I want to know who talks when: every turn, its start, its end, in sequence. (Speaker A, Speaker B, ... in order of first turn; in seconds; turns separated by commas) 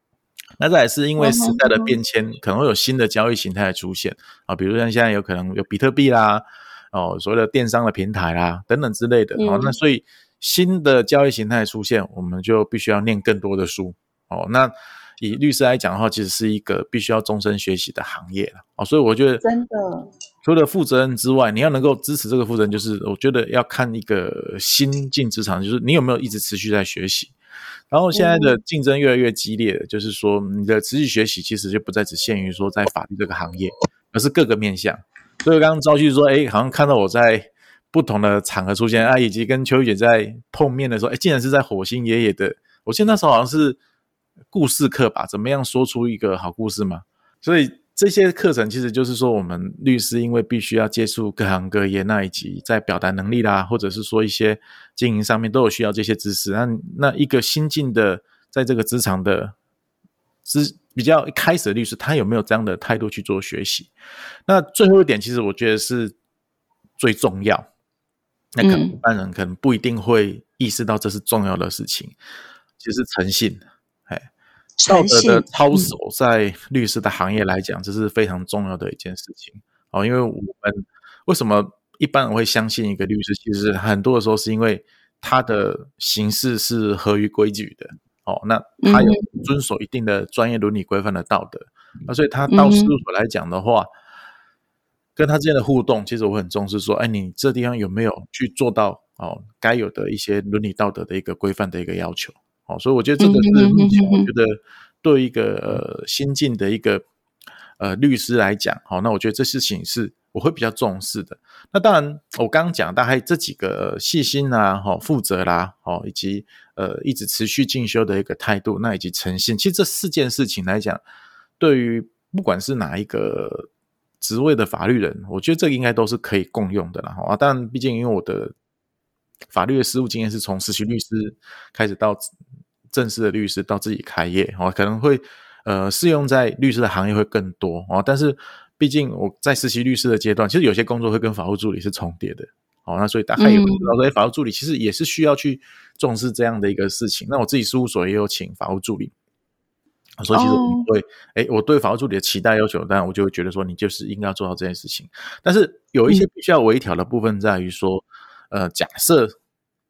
Speaker A: 0.6-19.4, Speaker B: 1.2-1.9, Speaker B: 9.4-9.8, Speaker B: 19.4-20.1, Speaker A: 20.4-27.3, Speaker A: 27.9-43.8, Speaker B: 28.1-28.6, Speaker A: 44.5-59.5, Speaker A: 60.5-63.9, Speaker A: 64.5-66.2, Speaker A: 67.0-67.7, Speaker A: 68.6-72.2, Speaker B: 68.6-69.0, Speaker A: 72.8-74.3, Speaker B: 74.8-75.9, Speaker A: 74.9-93.9, Speaker B: 88.8-89.4, Speaker B: 92.5-93.0, Speaker A: 95.2-107.0, Speaker B: 103.2-104.3, Speaker A: 107.8-121.0, Speaker A: 121.6-123.7, Speaker A: 124.2-128.5, Speaker A: 129.5-132.3, Speaker A: 132.9-149.1, Speaker B: 143.4-143.9, Speaker A: 150.2-159.3, Speaker B: 150.3-150.9